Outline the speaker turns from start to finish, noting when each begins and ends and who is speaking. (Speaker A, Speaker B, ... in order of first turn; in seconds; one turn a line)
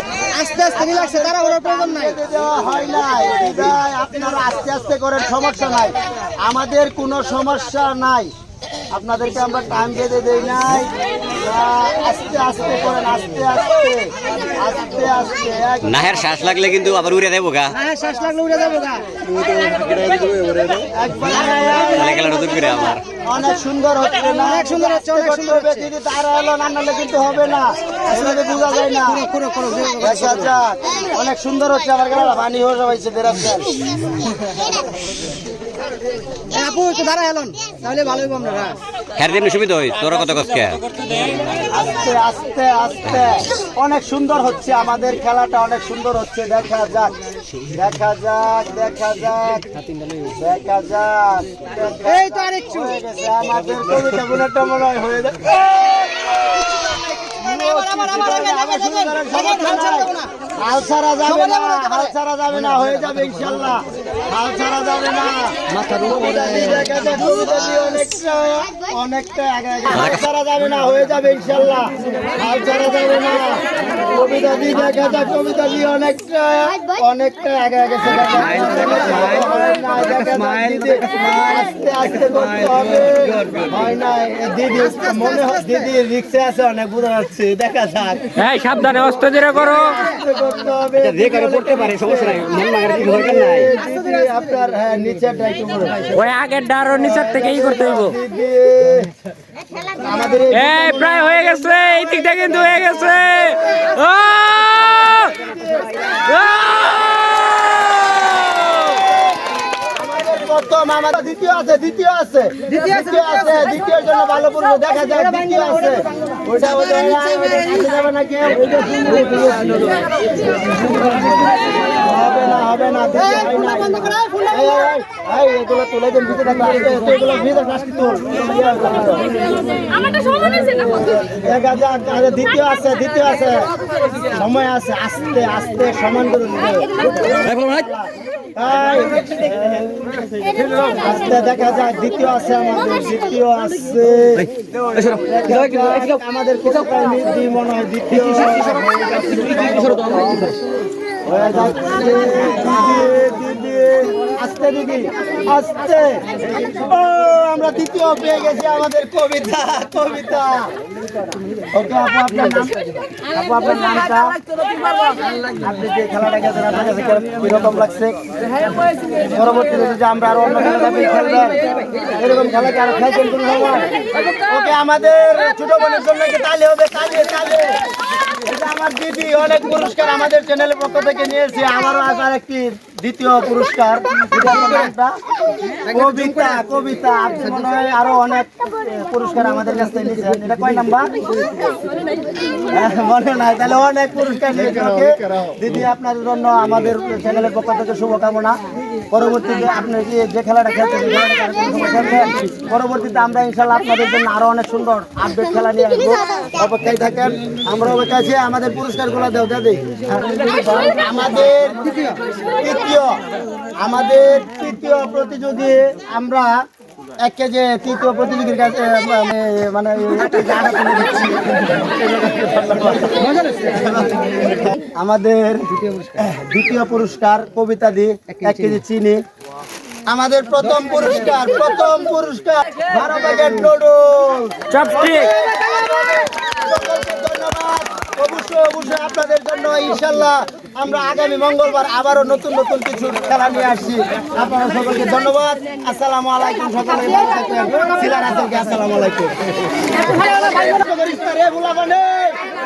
Speaker A: 0.3-2.1
Speaker B: 0.7-8.3
Speaker B: 8.9-16.2
Speaker C: 15.8-17.8
Speaker A: 17.8-19.2
Speaker A: 19.9-20.4
Speaker B: 20.7-22.4
Speaker C: 21.9-23.0
Speaker B: 23.2-29.3
Speaker A: 24.3-25.9
Speaker A: 28.1-28.4
Speaker A: 29.1-30.5
Speaker B: 30.0-33.7
Speaker A: 36.5-38.8
Speaker C: 39.2-40.8
Speaker B: 41.7-47.1
Speaker B: 47.7-56.4
Speaker A: 52.1-52.9
Speaker A: 56.6-60.3
Speaker B: 57.4-88.3
Speaker A: 61.2-62.1
Speaker A: 65.8-67.2
Speaker C: 69.9-70.2
Speaker C: 78.1-79.5
Speaker A: 78.8-79.3
Speaker C: 80.5-81.3
Speaker C: 82.3-83.8
Speaker A: 84.9-85.7
Speaker D: 88.4-90.0
Speaker B: 89.3-96.3
Speaker C: 91.0-93.7
Speaker A: 93.8-94.4
Speaker D: 96.2-98.1
Speaker B: 96.9-99.1
Speaker B: 99.9-101.5
Speaker D: 100.5-104.7
Speaker D: 106.3-107.1
Speaker B: 109.9-120.1
Speaker A: 112.8-113.3
Speaker B: 122.0-129.3
Speaker A: 123.4-124.5
Speaker B: 130.5-133.7
Speaker B: 134.3-150.6
Speaker B: 151.2-160.7
Speaker B: 161.7-164.4
Speaker B: 165.4-168.2
Speaker B: 169.2-171.6
Speaker B: 172.1-173.9
Speaker B: 174.5-185.2
Speaker B: 185.9-191.2
Speaker B: 192.7-198.6
Speaker B: 199.1-211.9
Speaker B: 212.6-213.2
Speaker B: 213.8-216.6
Speaker B: 217.2-229.2
Speaker A: 223.3-223.8
Speaker A: 225.8-226.1
Speaker A: 228.4-228.7
Speaker B: 230.1-252.4
Speaker D: 234.7-235.3